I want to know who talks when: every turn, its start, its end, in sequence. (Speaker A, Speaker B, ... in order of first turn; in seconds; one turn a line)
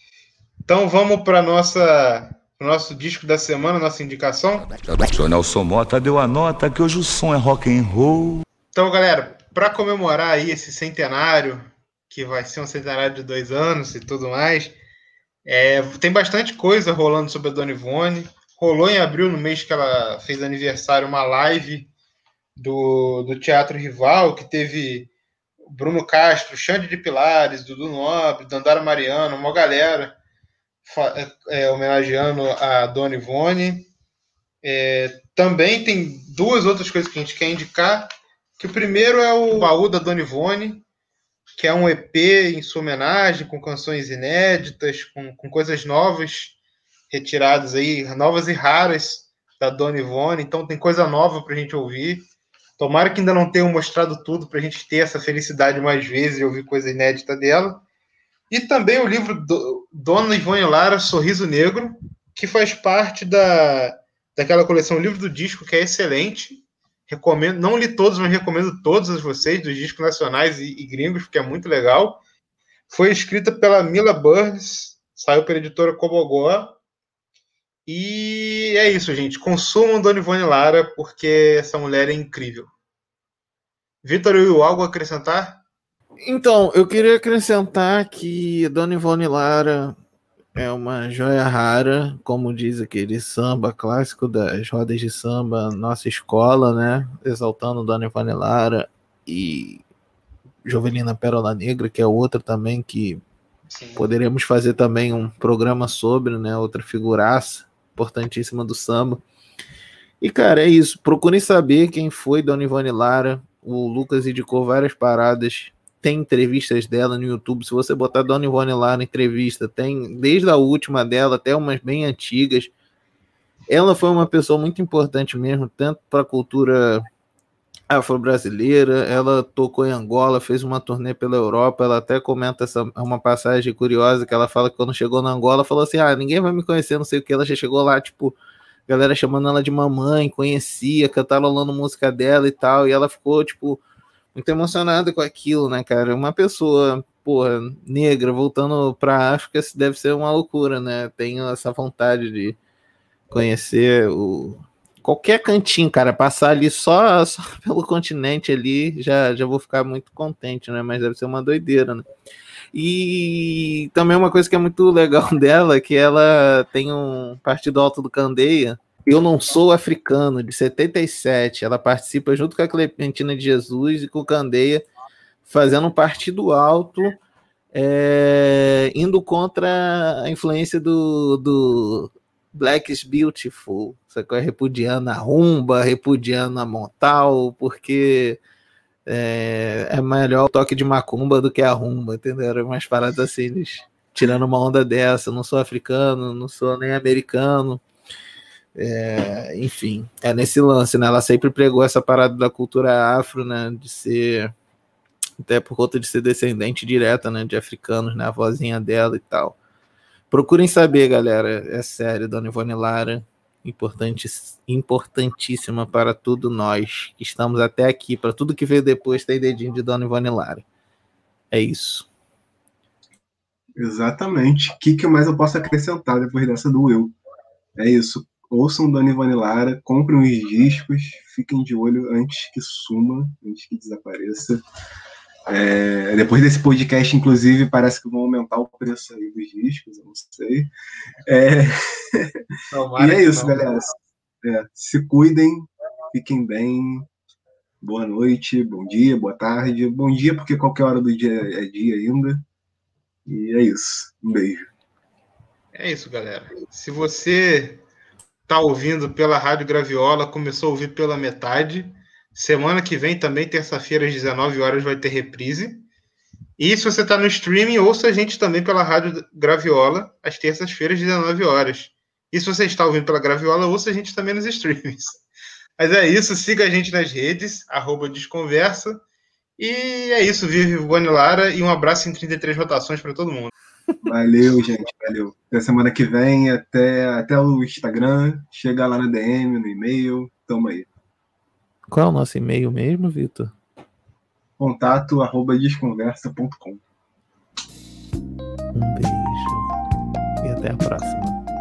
Speaker A: 0.7-4.7
Speaker B: 4.8-8.4
Speaker A: 8.7-14.8
Speaker A: 15.5-21.9
Speaker A: 22.6-25.1
Speaker A: 25.7-30.1
Speaker A: 30.9-33.9
Speaker A: 34.6-40.9
Speaker A: 41.6-46.6
Speaker A: 47.1-52.3
Speaker A: 52.8-57.8
Speaker A: 58.5-72.2
Speaker A: 72.9-76.8
Speaker A: 77.9-82.7
Speaker A: 84.0-85.6
Speaker C: 86.2-90.0
Speaker C: 90.5-99.8
Speaker C: 100.7-103.2
Speaker A: 103.7-104.0
Speaker C: 104.0-109.2
Speaker C: 110.2-122.7
Speaker C: 123.7-127.0
Speaker C: 127.9-138.4
Speaker C: 138.9-143.8
Speaker C: 144.3-152.6
Speaker C: 153.3-162.1
Speaker C: 162.7-174.9
Speaker C: 175.4-177.2
Speaker C: 177.7-188.4
Speaker C: 189.1-197.8
Speaker C: 198.8-204.5
Speaker C: 205.4-209.6
Speaker C: 210.3-220.7
Speaker C: 221.5-222.1
Speaker D: 223.8-227.2
Speaker D: 227.8-234.6
Speaker D: 235.5-240.7
Speaker D: 241.3-242.4
Speaker A: 242.7-243.6
Speaker D: 243.0-247.1
Speaker D: 247.8-252.4
Speaker D: 253.3-254.7
Speaker A: 255.7-257.8
Speaker A: 258.5-265.9
Speaker A: 266.6-275.2
Speaker A: 275.8-279.0
Speaker A: 279.6-283.5
Speaker D: 284.0-290.9
Speaker C: 291.9-293.5
Speaker D: 294.6-296.8
Speaker C: 298.7-299.7
Speaker C: 300.4-301.4